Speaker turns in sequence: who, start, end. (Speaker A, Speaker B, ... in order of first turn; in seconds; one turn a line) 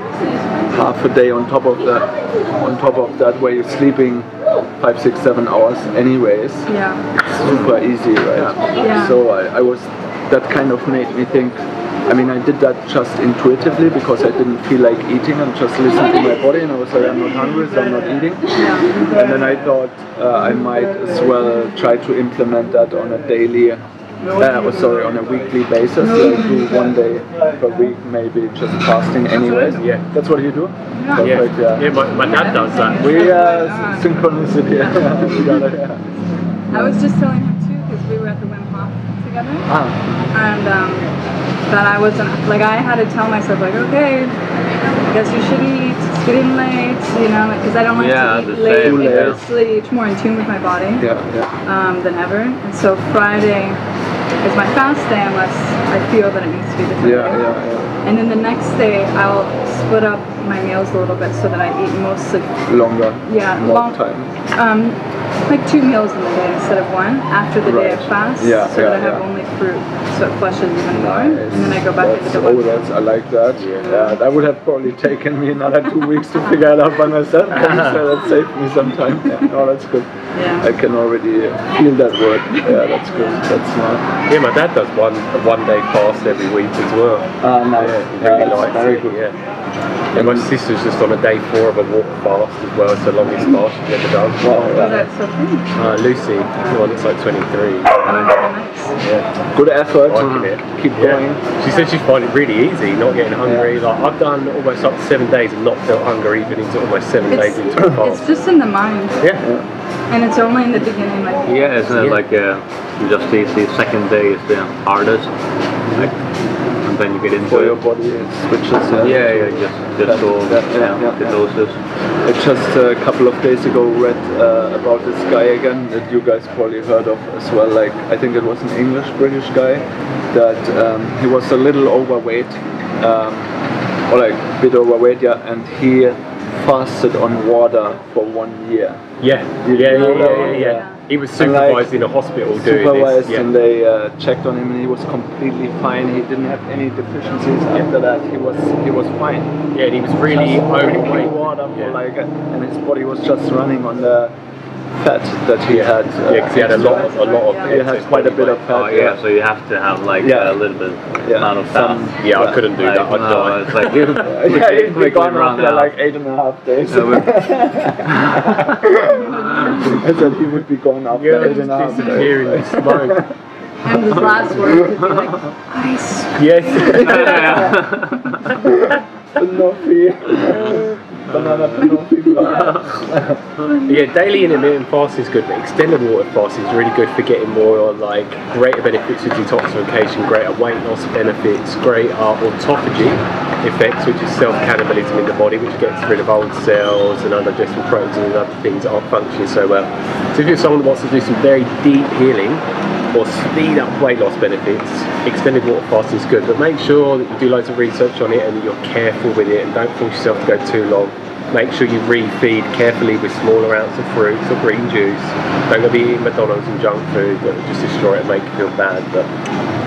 Speaker A: 0.7-23.8
Speaker B: 6.7-7.7
Speaker C: 8.3-8.9
Speaker B: 8.8-9.2
Speaker B: 18.5-19.1
Speaker B: 24.2-24.7
Speaker A: 24.4-36.1
Speaker B: 26.0-26.9
Speaker B: 29.3-29.9
Speaker C: 29.6-30.0
Speaker B: 30.9-31.4
Speaker C: 31.2-33.4
Speaker B: 32.2-35.7
Speaker B: 36.7-39.7
Speaker A: 36.7-37.0
Speaker A: 39.7-40.3
Speaker B: 40.3-41.1
Speaker B: 41.7-44.4
Speaker B: 45.1-51.1
Speaker D: 47.9-49.4
Speaker A: 48.8-49.4
Speaker A: 51.0-51.5
Speaker B: 51.6-53.8
Speaker B: 54.4-57.4
Speaker A: 57.0-57.9
Speaker B: 58.0-62.7
Speaker A: 62.7-64.3
Speaker B: 63.2-72.9
Speaker A: 67.6-69.2
Speaker A: 70.9-84.0
Speaker C: 73.5-73.9
Speaker B: 73.8-74.2
Speaker B: 80.3-80.7
Speaker B: 83.1-83.4
Speaker C: 84.3-89.3
Speaker A: 87.4-89.2
Speaker C: 90.1-94.7
Speaker A: 90.1-90.5
Speaker A: 94.4-95.1
Speaker B: 94.7-95.7
Speaker C: 95.7-98.1
Speaker B: 96.6-96.8
Speaker B: 98.0-99.0
Speaker A: 99.5-101.5
Speaker C: 100.1-108.2
Speaker A: 103.4-103.7
Speaker B: 107.3-109.2
Speaker A: 109.4-109.7
Speaker B: 110.1-111.6
Speaker D: 111.5-115.3
Speaker C: 111.9-112.2
Speaker D: 116.8-117.8
Speaker A: 117.4-119.5
Speaker D: 119.0-121.8
Speaker A: 120.0-121.4
Speaker A: 122.2-133.6
Speaker A: 134.1-139.0
Speaker C: 139.2-143.5
Speaker A: 139.6-141.9
Speaker B: 139.8-141.0
Speaker A: 142.5-149.6
Speaker C: 149.7-151.9
Speaker A: 150.2-154.3
Speaker A: 154.9-159.2
Speaker C: 155.7-159.1
Speaker B: 156.5-157.8
Speaker D: 158.7-165.9
Speaker A: 160.2-160.6
Speaker A: 161.2-162.5
Speaker C: 162.2-164.7
Speaker A: 164.2-173.3
Speaker D: 166.9-168.7
Speaker B: 169.3-169.9
Speaker C: 171.1-173.3
Speaker B: 171.4-172.3
Speaker B: 173.8-178.7
Speaker A: 174.1-174.9
Speaker C: 176.3-177.8
Speaker D: 177.0-178.4
Speaker A: 178.6-183.4
Speaker D: 181.3-183.2
Speaker B: 182.3-182.8
Speaker B: 183.6-184.1
Speaker C: 183.8-219.3